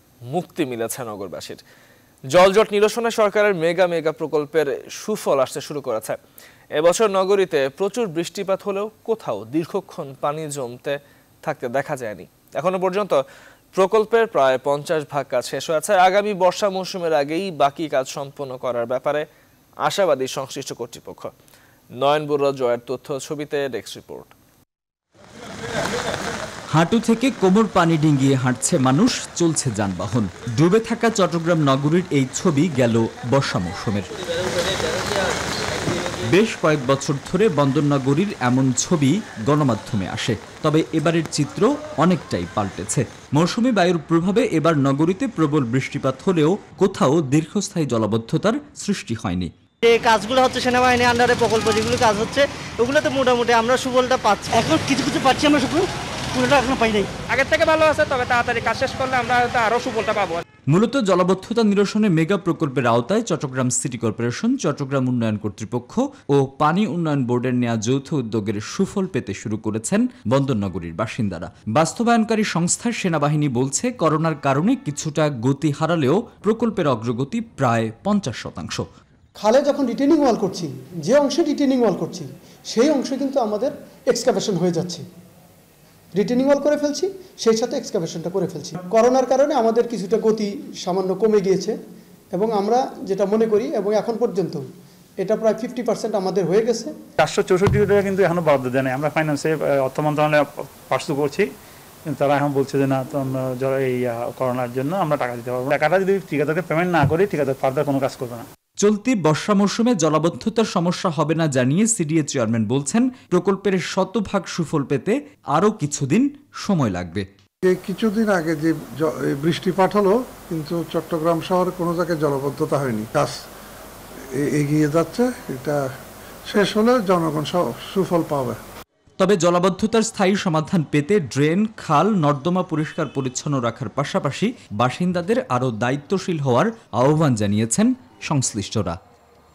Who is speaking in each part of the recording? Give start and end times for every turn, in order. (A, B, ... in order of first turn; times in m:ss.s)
0:00.3-0:01.6 A
0:02.3-0:06.2 A
0:06.8-0:13.2 A
0:13.7-0:19.2 A
0:19.8-0:21.3 A
0:22.0-0:24.3 A
0:26.7-0:34.1 B
0:36.2-0:49.5 B
0:49.8-0:55.4 C
0:54.6-0:57.1 D
0:56.5-0:57.0 C
0:57.3-1:00.4 E
1:00.7-1:18.8 B
1:19.4-1:25.0 F
1:26.1-1:31.8 F
1:32.3-1:34.6 F
1:35.2-1:36.9 F
1:37.2-1:41.4 G
1:42.1-1:48.4 G
1:48.8-1:57.2 B
1:57.6-2:03.3 H
2:04.4-2:05.8 H
2:06.5-2:08.6 H
2:09.2-2:19.0 B